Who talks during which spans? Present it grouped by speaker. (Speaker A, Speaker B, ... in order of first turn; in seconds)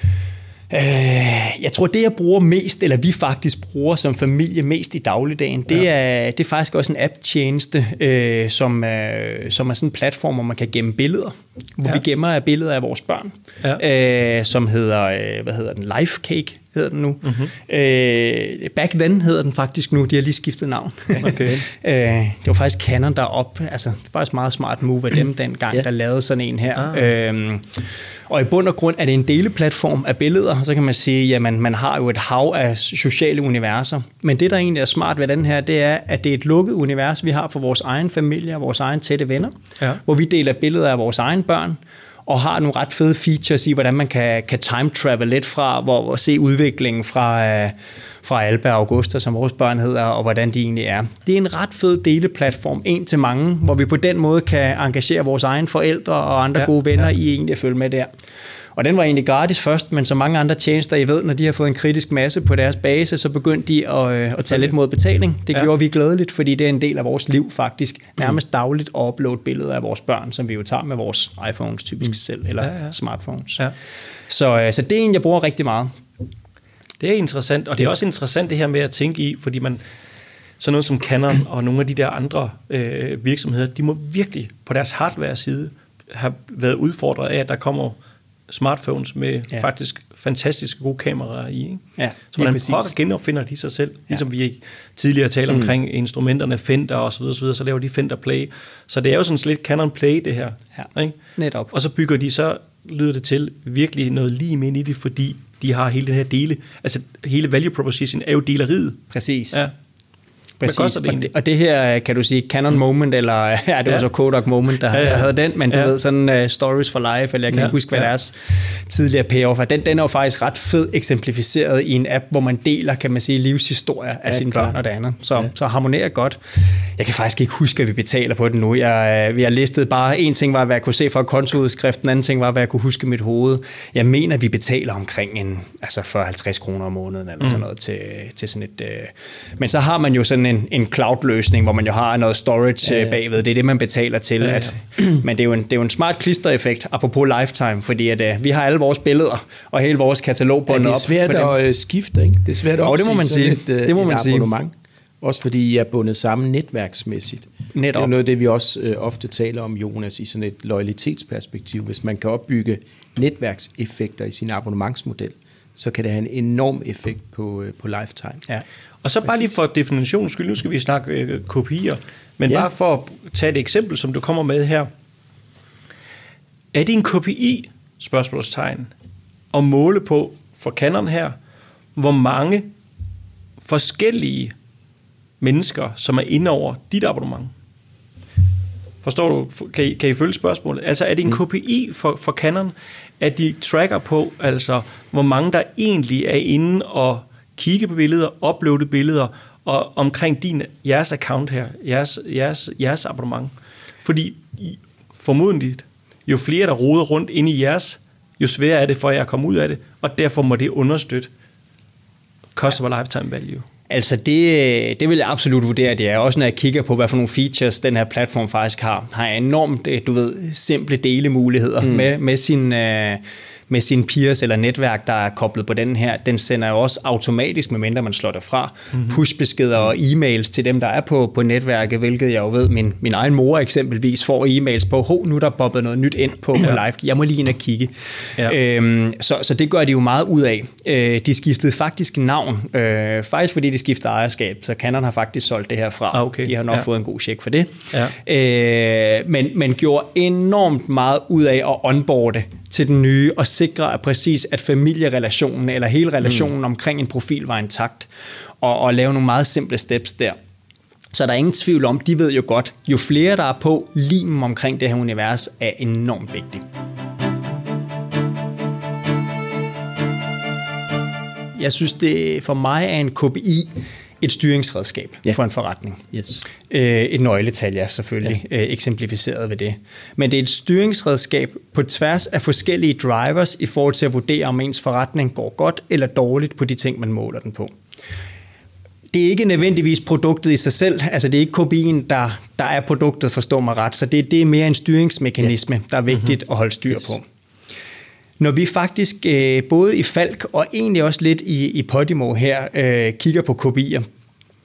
Speaker A: 0.7-58.1, 58.8-73.7, 74.3-75.9, 92.0-92.9, 100.8-101.7, 109.1-109.6, 110.6-151.5, 152.8-154.5, 157.7-158.1, 213.9-258.1, 258.6-260.4, 261.1-266.6, 271.6-276.1, 276.7-287.7, 289.1-297.2, 298.4-304.1
Speaker B: 17.2-17.5, 21.2-21.6, 26.8-27.1, 72.6-73.0, 77.0-79.8, 80.6-88.0, 88.5-101.2, 101.7-109.7, 110.6-111.3, 114.9-115.9, 117.5-118.1, 144.4-144.8, 169.0-174.9, 176.7-178.9, 179.5-181.4, 181.9-182.7, 183.6-184.5, 185.4-187.5, 189.0-211.3, 212.5-213.7, 228.9-229.2, 246.1-246.9
Speaker C: 124.3-124.7, 142.8-143.2, 150.7-168.4, 221.8-222.1, 276.1-276.4